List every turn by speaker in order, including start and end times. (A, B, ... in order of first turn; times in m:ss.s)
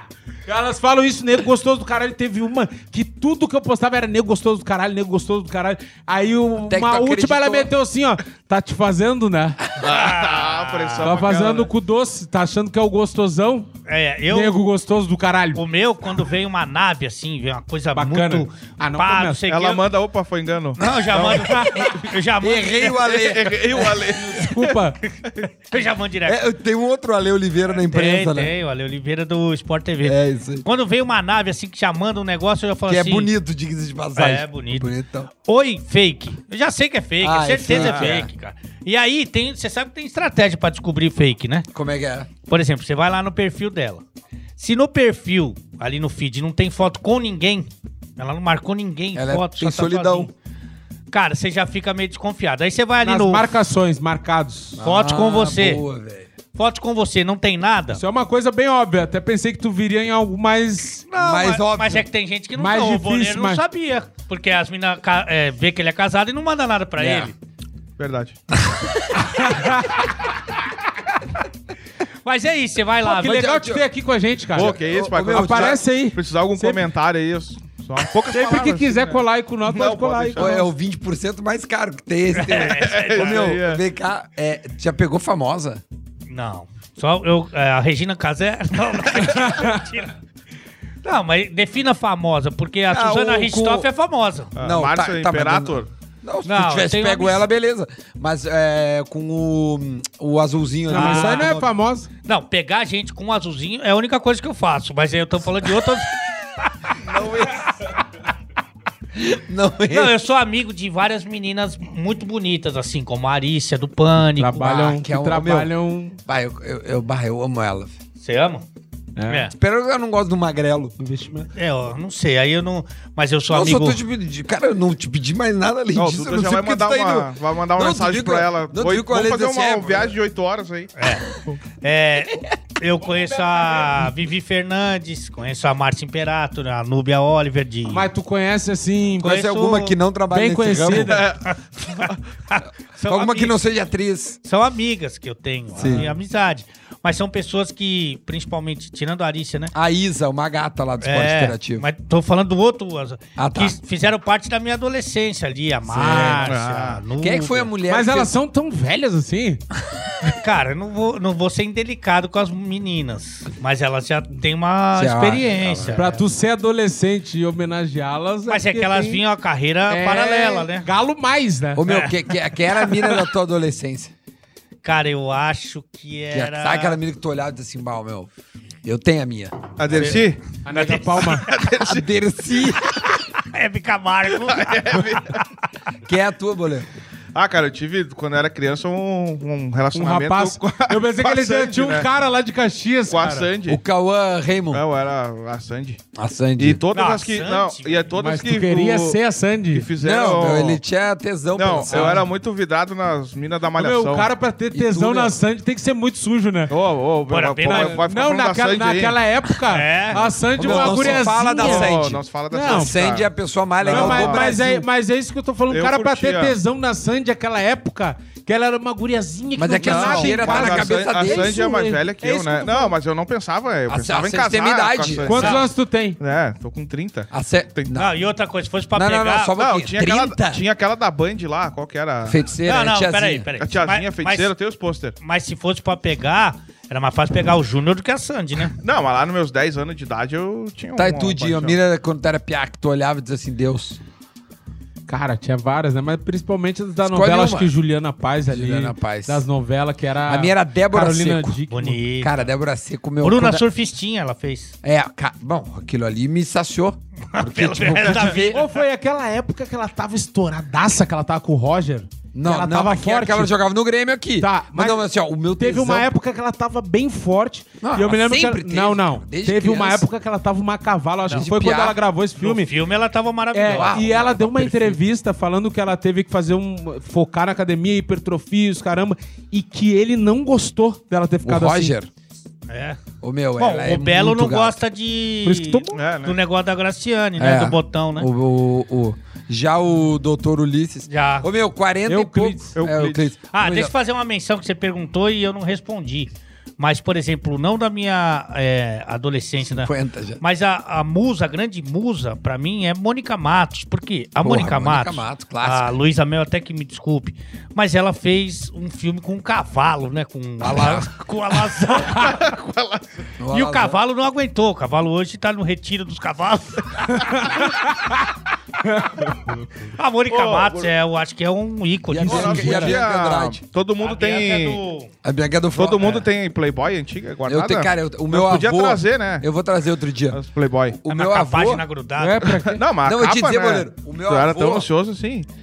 0:00.4-0:09.6 A
0:06.7-0:07.7 B
0:09.8-0:11.2 C
0:09.8-0:11.7 D
0:11.0-0:13.7 A
0:13.9-0:14.6 C
0:14.3-0:15.6 A
0:15.5-0:19.8 C
0:17.9-0:19.4 A
0:19.5-0:21.9 D
0:20.8-0:23.2 C
0:21.3-0:21.6 B
0:21.5-0:21.8 A
0:22.4-0:24.1 B
0:23.0-0:24.5 D
0:24.2-0:25.0 A
0:25.7-0:26.4 C
0:26.2-0:28.5 B
0:27.8-0:33.3 C
0:30.0-0:30.6 B
0:32.9-0:35.3 B
0:34.1-0:34.9 C
0:35.4-0:41.7 C
0:37.2-0:38.3 B
0:37.7-0:38.2 D
0:41.7-0:42.3 B
0:42.5-0:44.0 C
0:44.6-0:50.3 C
0:49.1-0:50.3 B
0:51.1-0:53.5 C
0:53.0-0:54.8 A
0:54.8-0:56.3 B
0:54.8-0:55.8 C
0:56.6-0:58.0 C
0:58.0-1:01.1 A
1:01.1-1:07.3 C
1:01.2-1:02.0 B
1:02.6-1:03.6 A
1:07.0-1:07.3 B
1:08.0-1:08.4 D
1:08.6-1:09.2 B
1:09.2-1:10.1 A
1:12.2-1:13.4 C
1:13.0-1:16.8 A
1:13.1-1:13.8 B
1:14.5-1:15.8 B
1:14.5-1:20.5 D
1:18.3-1:20.7 A
1:20.4-1:25.8 B
1:22.3-1:23.6 C
1:22.7-1:23.8 D
1:26.3-1:30.1 C
1:29.5-1:29.7 A
1:31.0-1:34.5 C
1:32.9-1:33.9 B
1:34.6-1:35.9 D
1:34.6-1:41.7 B
1:36.4-1:37.5 C
1:40.9-1:42.1 A
1:40.9-1:41.5 C
1:42.2-1:46.7 C
1:47.0-1:47.7 B
1:49.1-1:50.2 B
1:49.9-1:54.8 C
1:54.4-1:56.2 A
1:54.6-1:55.7 B
1:56.2-1:57.9 B
1:58.2-1:58.6 C
1:59.2-1:59.5 A
1:59.3-1:59.5 C
1:59.5-2:00.9 B
2:01.0-2:01.5 A
2:01.6-2:04.0 C
2:03.5-2:10.1 B
2:06.0-2:10.9 D
2:11.0-2:11.2 C
2:11.8-2:18.0 C
2:13.2-2:13.9 A
2:17.9-2:19.4 A
2:19.2-2:19.9 C
2:19.2-2:21.2 B
2:20.3-2:21.3 A
2:21.1-2:22.2 D
2:21.5-2:23.6 C
2:23.0-2:24.4 B
2:24.4-2:29.7 C
2:25.8-2:26.1 B
2:29.7-2:31.8 B
2:31.0-2:37.7 C
2:33.4-2:33.8 B
2:35.9-2:36.5 B
2:36.4-2:37.0 D
2:37.2-2:38.3 B
2:37.9-2:39.6 A
2:40.3-2:46.2 C
2:44.9-2:46.0 B
2:45.9-2:49.2 A
2:48.5-2:50.9 C
2:49.9-2:51.8 A
2:51.8-2:54.1 B
2:51.8-2:52.1 C
2:54.8-2:57.0 C
2:56.3-2:58.3 B
2:58.8-3:00.2 B
2:59.8-3:02.1 D
2:59.9-3:01.4 C
3:00.6-3:01.5 A
3:01.8-3:03.0 B
3:03.3-3:05.2 C
3:04.3-3:05.4 D
3:06.0-3:06.9 B
3:07.3-3:12.1 D
3:09.9-3:13.5 A
3:13.1-3:13.8 D
3:13.7-3:14.8 B
3:14.7-3:16.0 D
3:16.1-3:16.8 B
3:16.6-3:19.2 D
3:16.9-3:18.1 C
3:18.2-3:19.9 A
3:19.7-3:20.8 D
3:20.0-3:22.3 B
3:21.6-3:24.3 D
3:21.9-3:22.2 A
3:23.8-3:26.7 A
3:24.7-3:25.4 B
3:26.7-3:29.2 D
3:27.3-3:28.0 C
3:27.6-3:32.0 A
3:29.7-3:30.3 C
3:30.6-3:34.8 B
3:30.6-3:33.3 D
3:32.5-3:32.9 A
3:33.8-3:34.6 D
3:33.8-3:42.9 A
3:35.7-3:36.6 D
3:39.6-3:41.6 B
3:39.8-3:47.9 D
3:43.9-3:45.3 B
3:45.2-3:46.2 A
3:45.3-3:45.6 C
3:47.3-3:48.2 B
3:47.9-3:49.6 C
3:48.9-3:50.6 B
3:49.6-3:52.4 D
3:52.2-3:53.5 B
3:52.6-3:54.5 C
3:53.6-3:55.1 D
3:55.2-3:58.7 C
3:58.8-4:01.8 D
4:01.0-4:04.0 B
4:05.1-4:12.0 A
4:07.0-4:07.7 B
4:08.5-4:09.4 B
4:10.2-4:11.6 B
4:11.7-4:12.4 C
4:12.2-4:13.6 B
4:13.2-4:14.7 C
4:14.8-4:18.6 B
4:17.3-4:18.7 C
4:18.5-4:23.5 A
4:22.3-4:26.1 B
4:24.4-4:25.0 A
4:25.6-4:32.7 A
4:27.8-4:30.0 B
4:31.3-4:32.0 B
4:32.4-4:34.0 C
4:33.5-4:41.9 A
4:33.6-4:35.0 B
4:41.4-4:42.1 B
4:42.7-4:43.0 C
4:43.2-4:44.8 B
4:43.6-4:48.3 C
4:45.4-4:46.0 A
4:45.9-4:46.3 D
4:47.4-4:53.9 B
4:51.1-4:51.5 C
4:52.1-4:52.7 A
4:52.8-4:53.3 D
4:53.5-5:12.4 C
4:59.6-5:00.4 B
5:04.4-5:05.9 B
5:10.6-5:11.1 B
5:12.1-5:13.3 D
5:13.4-5:14.0 B
5:13.5-5:17.5 C
5:17.1-5:18.3 A
5:18.8-5:19.6 A
5:19.9-5:22.8 C
5:20.3-5:20.9 D
5:22.1-5:23.0 A
5:22.2-5:23.6 B
5:22.3-5:24.8 D
5:24.0-5:25.1 C
5:25.2-5:26.3 B
5:25.7-5:29.4 D
5:27.5-5:30.4 B
5:30.3-5:31.0 D
5:30.9-5:31.8 B
5:31.1-5:32.6 C
5:32.2-5:32.8 A
5:32.4-5:35.5 D
5:33.0-5:34.9 B